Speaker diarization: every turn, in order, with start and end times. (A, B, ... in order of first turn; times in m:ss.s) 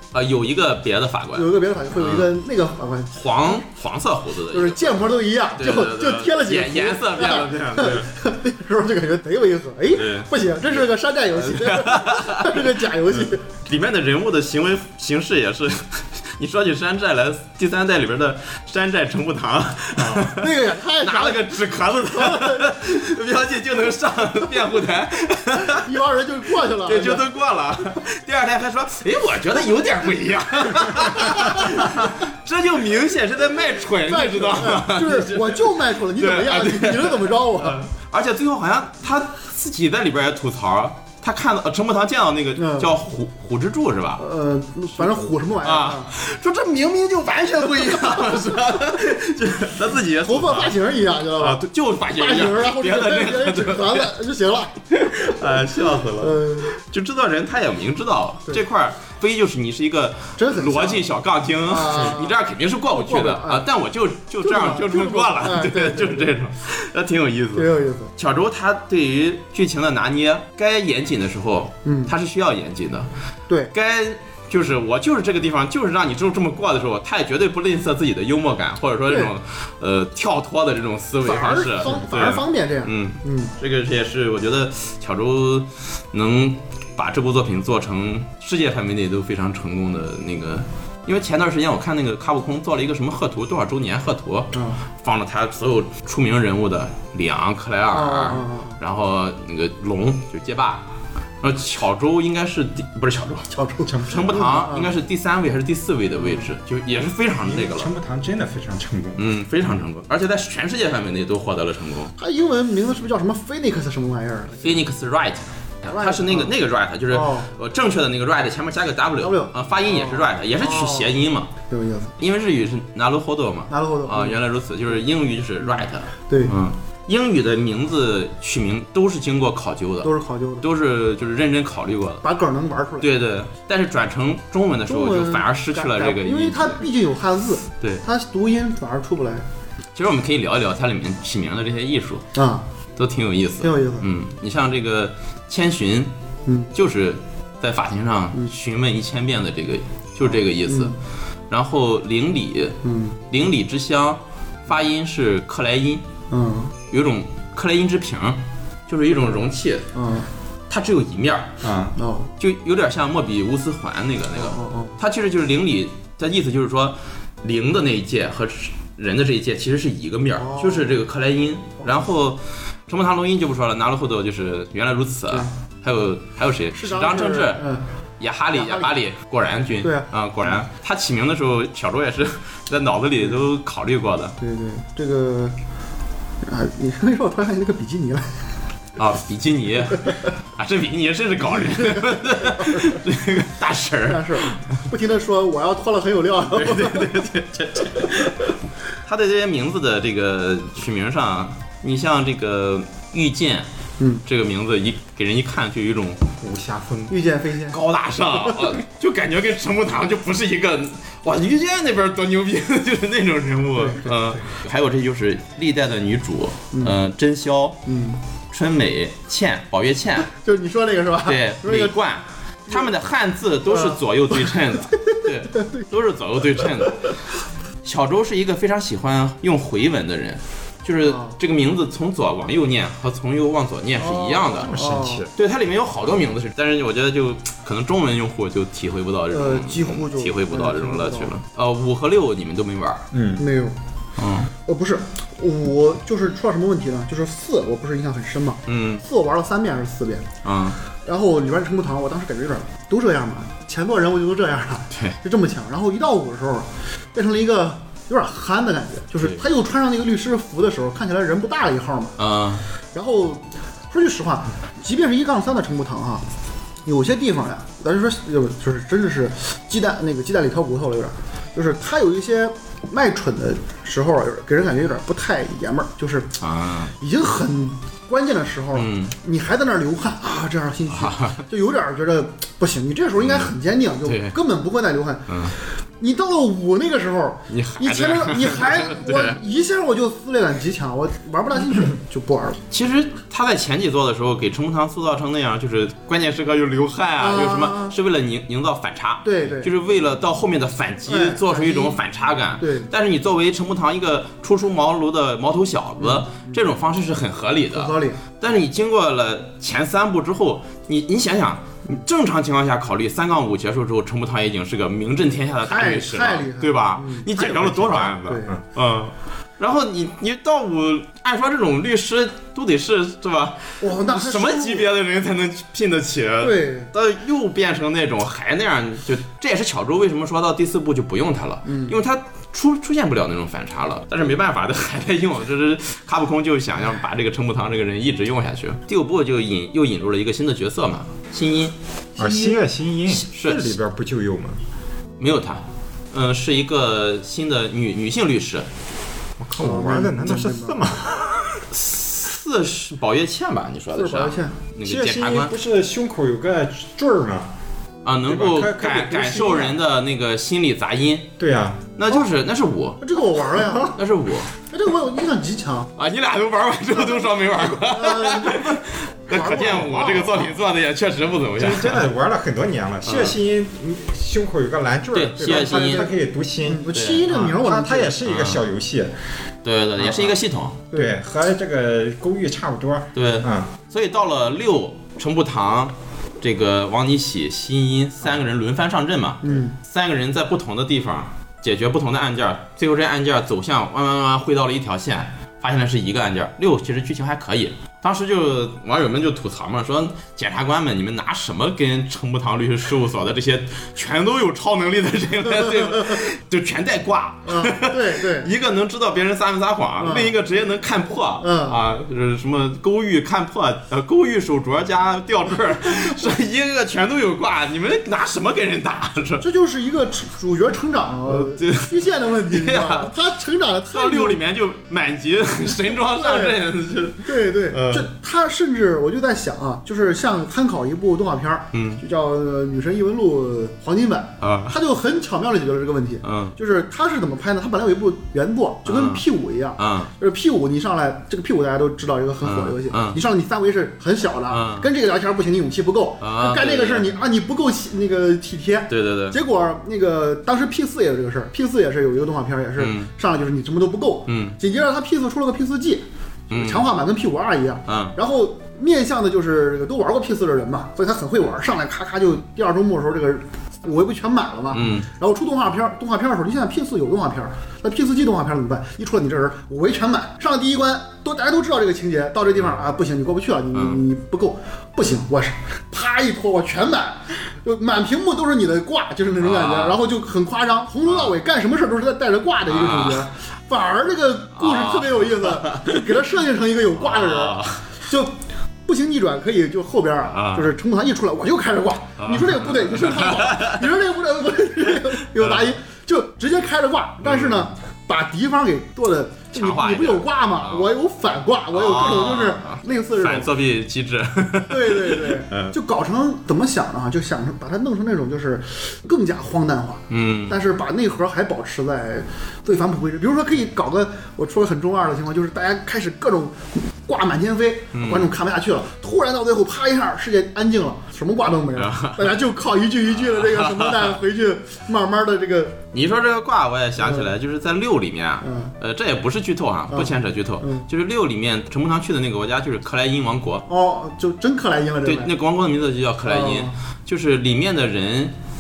0:00.1-0:02.3 A
0:01.3-0:03.6 B
0:03.1-0:05.0 A
0:04.5-0:13.4 B
0:05.6-0:08.1 A
0:09.9-0:10.3 A
0:11.3-0:25.9 A
0:19.9-0:20.3 C
0:20.3-0:22.8 B
0:25.6-0:27.2 B
0:26.8-0:44.2 A
0:31.1-0:31.9 B
0:34.1-0:37.8 B
0:42.6-0:42.9 B
0:44.2-0:46.1 B
0:45.0-0:50.8 A
0:50.2-0:51.6 B
0:51.4-0:54.1 A
0:52.2-0:54.8 B
0:54.9-1:13.1 A
0:56.2-0:56.7 B
1:00.4-1:01.1 B
1:01.7-1:02.3 B
1:02.9-1:03.6 B
1:04.4-1:06.3 B
1:07.5-1:08.1 B
1:11.8-1:12.1 B
1:13.7-1:40.9 A
1:21.2-1:23.5 B
1:34.5-1:34.8 B
1:37.9-1:38.8 B
1:41.4-1:43.5 A
1:43.5-1:44.9 B
1:43.8-1:44.5 C
1:44.1-1:47.9 A
1:46.2-1:46.5 B
1:47.4-1:49.2 C
1:49.2-1:52.1 A
1:52.2-1:54.7 B
1:54.6-2:01.5 A
1:55.8-1:56.5 B
1:57.1-1:57.5 B
1:59.2-2:01.1 B
2:01.7-2:02.2 B
2:02.2-2:10.1 A
2:03.7-2:04.4 B
2:06.3-2:06.5 B
2:10.0-2:10.6 B
2:10.6-2:12.2 A
2:12.2-2:13.1 B
2:13.0-2:16.8 A
2:14.9-2:19.4 B
2:19.9-2:22.3 A
2:22.3-2:22.6 B
2:23.0-2:26.1 A
2:23.6-2:24.1 B
2:26.4-2:26.7 B
2:26.7-2:30.9 A
2:30.7-2:30.9 B
2:31.5-2:32.8 A
2:32.8-2:33.2 B
2:33.3-2:36.0 A
2:36.3-2:36.7 B
2:36.9-2:39.9 A
2:39.1-2:39.4 B
2:39.9-2:40.3 B
2:40.7-2:41.6 A
2:41.6-2:41.9 C
2:42.0-2:42.3 B
2:42.4-2:57.6 A
2:44.4-2:44.9 B
2:50.4-2:51.0 B
2:56.8-2:57.8 B
2:58.2-3:04.4 A
2:58.5-2:58.9 B
2:59.8-3:00.6 B
3:04.4-3:05.6 B
3:06.4-3:08.4 B
3:09.0-3:14.6 A
3:11.9-3:13.0 B
3:14.1-3:17.1 B
3:16.5-3:18.4 A
3:19.0-3:23.7 A
3:24.2-3:26.2 A
3:26.4-3:27.1 C
3:27.1-3:27.8 B
3:27.7-3:37.8 A
3:33.8-3:34.0 B
3:37.8-3:38.2 B
3:38.5-3:40.3 A
3:40.3-3:41.9 B
3:41.2-3:47.1 A
3:43.7-3:44.0 B
3:45.1-3:45.8 B
3:47.8-3:54.7 A
3:51.0-3:51.3 B
3:54.0-3:55.2 B
3:54.6-3:55.3 C
3:55.3-4:03.0 A
3:59.3-4:01.3 B
4:03.1-4:03.4 C
4:03.4-4:03.8 B
4:04.2-4:04.5 A
4:04.6-4:10.3 B
4:08.7-4:09.0 A
4:10.4-4:10.8 A
4:11.0-4:22.2 B
4:14.9-4:15.2 A
4:22.2-4:22.6 A
4:22.9-4:26.2 B
4:26.8-4:36.3 B
4:36.4-4:36.9 A
4:37.0-4:45.3 B
4:38.7-4:39.1 A
4:40.9-4:41.4 A
4:43.2-4:43.5 A
4:44.0-4:44.3 A
4:45.3-4:45.6 A
4:46.0-4:52.6 B
4:47.5-4:49.4 A
4:52.7-5:43.7 A
4:57.2-4:57.9 B
4:59.2-4:59.7 B
5:01.1-5:02.0 B
5:02.6-5:02.9 B
5:06.0-5:06.6 B
5:07.7-5:08.2 B
5:15.7-5:17.6 B
5:17.4-5:18.6 C
5:18.2-5:18.5 B
5:23.8-5:24.9 B
5:26.4-5:26.9 B
5:31.7-5:32.0 B
5:42.2-5:44.6 C
5:45.2-5:48.7 A
5:49.4-5:51.7 C
5:49.6-5:50.8 B
5:51.7-5:55.5 A
5:53.9-5:54.6 B
5:54.8-5:57.5 C
5:58.0-6:01.3 A
5:58.3-5:59.8 C
6:01.4-6:01.9 C
6:02.0-6:03.0 A
6:03.0-6:04.0 B
6:03.6-6:04.0 C
6:03.9-6:04.5 A
6:04.7-6:05.9 B
6:06.0-6:12.1 A
6:06.9-6:10.6 B
6:11.6-6:19.1 C
6:13.0-6:13.4 A
6:15.1-6:16.1 A
6:15.4-6:16.1 B
6:16.6-6:18.2 B
6:16.9-6:17.3 A
6:18.2-6:18.6 A
6:19.6-6:20.8 A
6:20.0-6:20.4 C
6:20.9-6:23.7 C
6:23.2-6:59.4 A
6:29.4-6:29.7 B
6:45.6-6:46.2 B
6:47.4-6:48.5 B
6:50.0-6:50.3 B
6:51.4-6:51.8 B
6:59.4-7:04.4 B
7:01.3-7:03.1 A
7:03.9-7:08.1 A
7:05.9-7:06.6 B
7:07.2-8:08.3 B
7:11.7-7:12.0 A
7:14.4-7:14.8 A
7:16.2-7:16.6 A
7:18.8-7:19.2 A
7:19.8-7:20.1 A
7:22.4-7:23.2 A
7:24.5-7:24.9 A
7:26.2-7:27.1 A
7:28.9-7:29.4 A
7:32.8-7:33.1 A
7:34.3-7:34.6 A
7:36.5-7:36.8 A
7:37.9-7:38.2 A
7:44.7-7:45.1 A
7:53.7-7:54.0 A
7:59.4-8:00.0 A
8:01.1-8:01.4 A
8:02.7-8:03.3 A
8:04.6-8:06.2 A
8:07.0-8:07.8 A
8:08.8-8:23.5 B
8:10.3-8:10.7 A
8:12.2-8:13.8 A
8:15.4-8:15.7 A
8:17.2-8:17.7 A
8:19.5-8:20.9 A
8:21.7-8:25.7 A
8:24.7-8:45.8 B
8:30.1-8:30.6 A
8:37.9-8:38.3 A
8:41.7-8:42.3 A
8:43.2-8:44.2 A
8:45.9-8:53.6 A
8:47.0-8:47.3 B
8:48.4-8:48.7 B
8:49.9-8:50.9 B
8:53.7-8:55.3 B
8:55.0-8:58.4 A
8:56.3-8:56.7 B